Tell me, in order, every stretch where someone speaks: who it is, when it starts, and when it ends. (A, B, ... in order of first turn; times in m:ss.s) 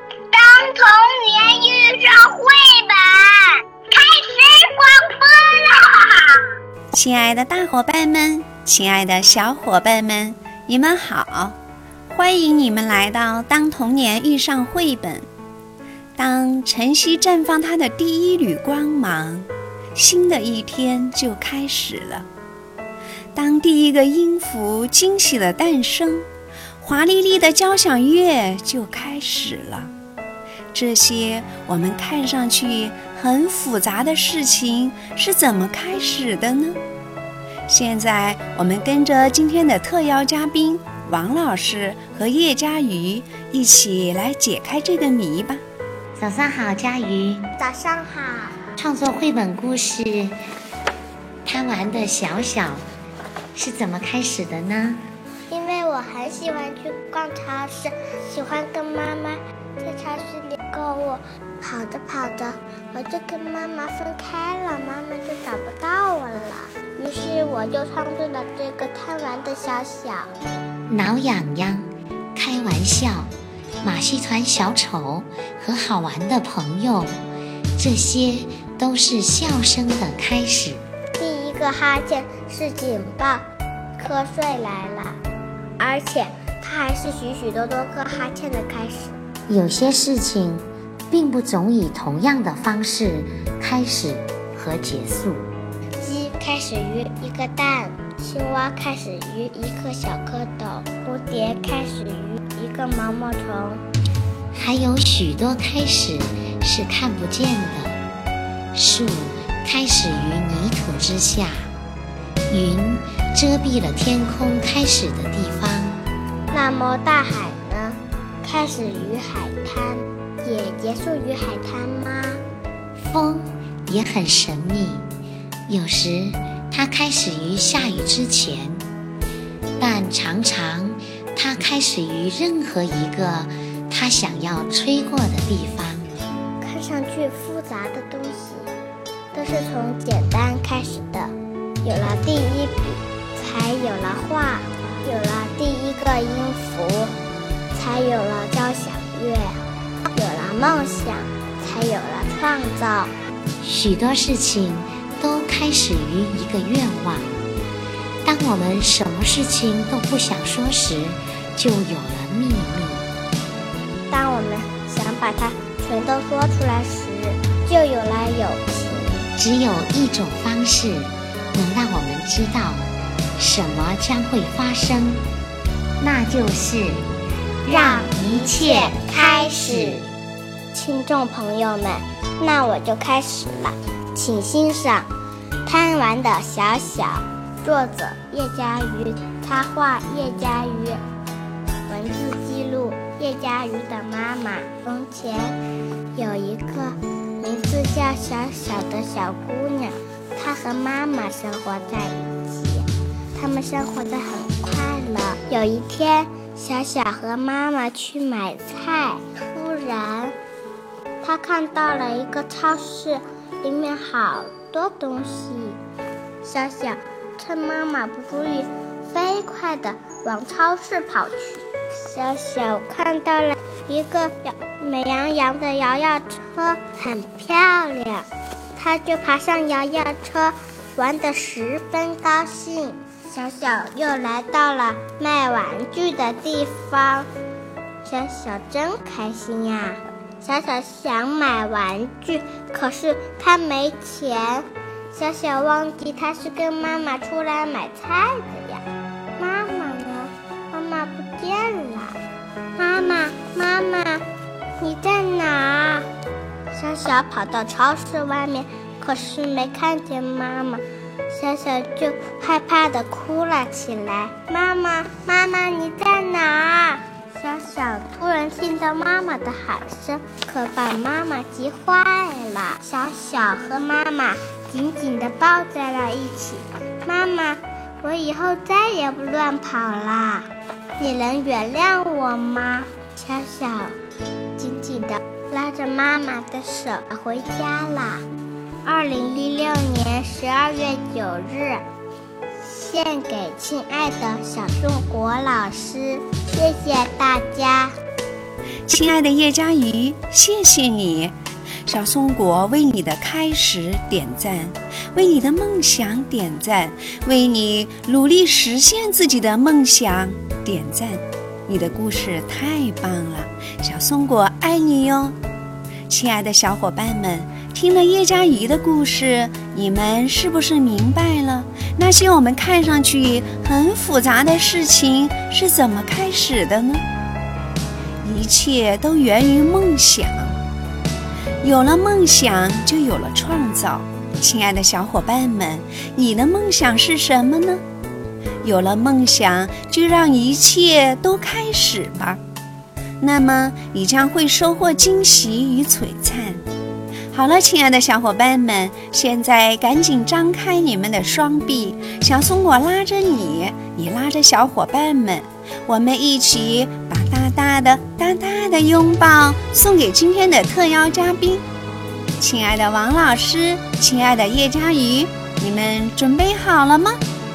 0:00.3-0:03.2 A
0:03.9-0:05.9 A
0:06.9-0:11.6 B
0:12.1-0:15.3 B
0:16.2-0:22.3 B
0:23.4-0:26.3 B
0:26.8-0:29.9 B
0:30.7-0:36.8 B
0:37.7-0:45.6 B
0:46.2-0:47.5 C
0:47.6-0:48.6 A
0:48.8-0:50.4 C
0:51.4-0:52.8 C
0:53.6-0:55.0 C
0:55.5-1:10.3 A
1:10.9-1:17.2 C
1:17.8-1:20.8 C
1:21.2-1:25.2 A
1:25.8-1:29.2 A
1:29.5-1:35.5 C
1:36.0-1:43.8 A
1:44.5-1:48.0 C
1:48.7-1:51.8 C
1:52.5-1:56.0 C
1:56.5-2:02.4 A
2:03.0-2:05.1 C
2:05.7-2:08.9 C
2:09.8-2:16.1 C
2:16.6-2:18.7 A
2:19.3-2:27.1 A
2:27.7-2:29.6 A
2:30.1-2:33.1 A
2:33.6-2:37.4 C
2:38.2-2:43.1 C
2:44.1-2:49.2 A
2:49.4-2:55.2 C
2:56.0-2:57.0 C
2:57.6-3:00.1 C
2:57.7-3:00.0 A
3:00.7-3:05.1 A
3:05.6-3:11.0 A
3:11.9-3:15.6 A
3:16.1-3:30.4 A
3:31.2-3:35.8 A
3:36.4-3:57.3 A
3:58.0-4:08.8 A
4:09.4-4:12.2 A
4:12.8-4:14.2 A
4:14.8-4:16.1 A
4:16.7-4:44.0 A
4:44.6-4:48.2 A
4:48.8-4:51.8 A
4:52.6-4:57.9 A
4:58.9-5:15.4 B
5:16.1-5:27.0 B
5:28.2-5:30.6 B
5:31.6-5:37.8 B
5:38.6-5:42.4 B
5:43.2-5:46.6 B
5:47.3-6:01.6 B
6:02.4-6:07.2 B